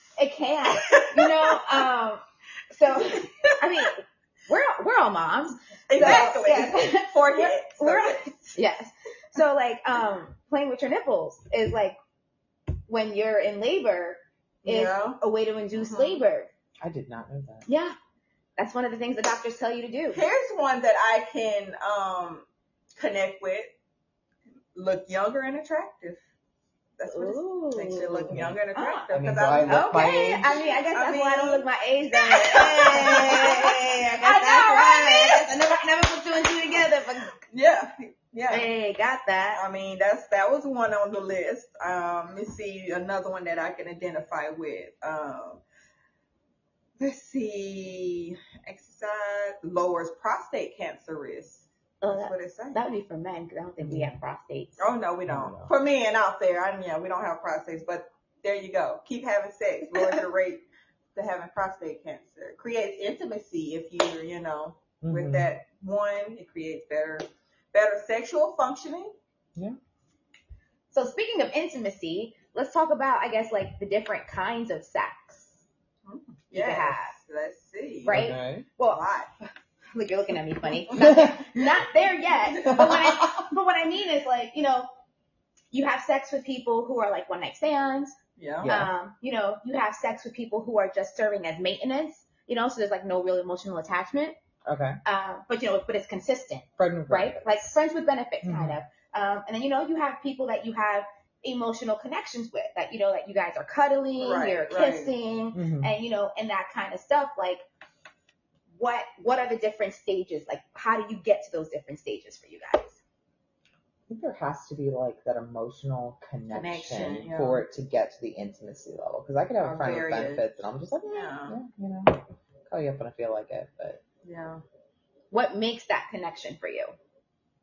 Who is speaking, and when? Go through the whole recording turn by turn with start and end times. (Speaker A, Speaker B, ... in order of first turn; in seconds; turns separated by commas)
Speaker A: 0.2-12.0, Speaker B: 0.7-1.8, Speaker B: 2.9-3.9, Speaker B: 5.9-8.6, Speaker C: 6.0-6.3, Speaker A: 12.9-16.5, Speaker B: 14.6-15.2, Speaker B: 15.7-16.2, Speaker C: 16.8-17.7, Speaker A: 17.7-17.9, Speaker A: 18.6-20.2, Speaker B: 20.1-23.7, Speaker B: 24.7-26.2, Speaker B: 27.0-35.7, Speaker A: 27.1-29.1, Speaker C: 28.3-28.6, Speaker C: 29.1-30.6, Speaker A: 29.6-37.3, Speaker B: 37.4-38.7, Speaker A: 38.5-39.6, Speaker B: 39.5-45.6, Speaker B: 47.0-52.8, Speaker A: 52.0-54.9, Speaker C: 53.8-54.2, Speaker B: 54.8-60.6, Speaker C: 55.3-55.7, Speaker B: 61.1-69.1, Speaker C: 65.0-65.5, Speaker A: 70.9-75.6, Speaker B: 76.0-78.3, Speaker A: 76.5-77.1, Speaker A: 78.0-79.0, Speaker C: 78.1-78.7, Speaker B: 78.8-79.3, Speaker A: 79.9-84.9, Speaker C: 80.9-81.4, Speaker B: 82.0-83.0, Speaker C: 82.6-83.5, Speaker A: 85.7-94.4, Speaker B: 88.4-88.7, Speaker C: 88.6-88.9, Speaker C: 94.6-95.0, Speaker A: 95.0-107.6, Speaker C: 96.8-97.8, Speaker C: 98.4-98.8, Speaker B: 104.2-105.1, Speaker C: 105.5-105.9, Speaker A: 108.7-113.0, Speaker C: 114.1-124.0, Speaker B: 116.5-117.6, Speaker B: 119.6-120.4, Speaker B: 121.1-121.6, Speaker B: 124.2-124.6, Speaker A: 125.3-126.9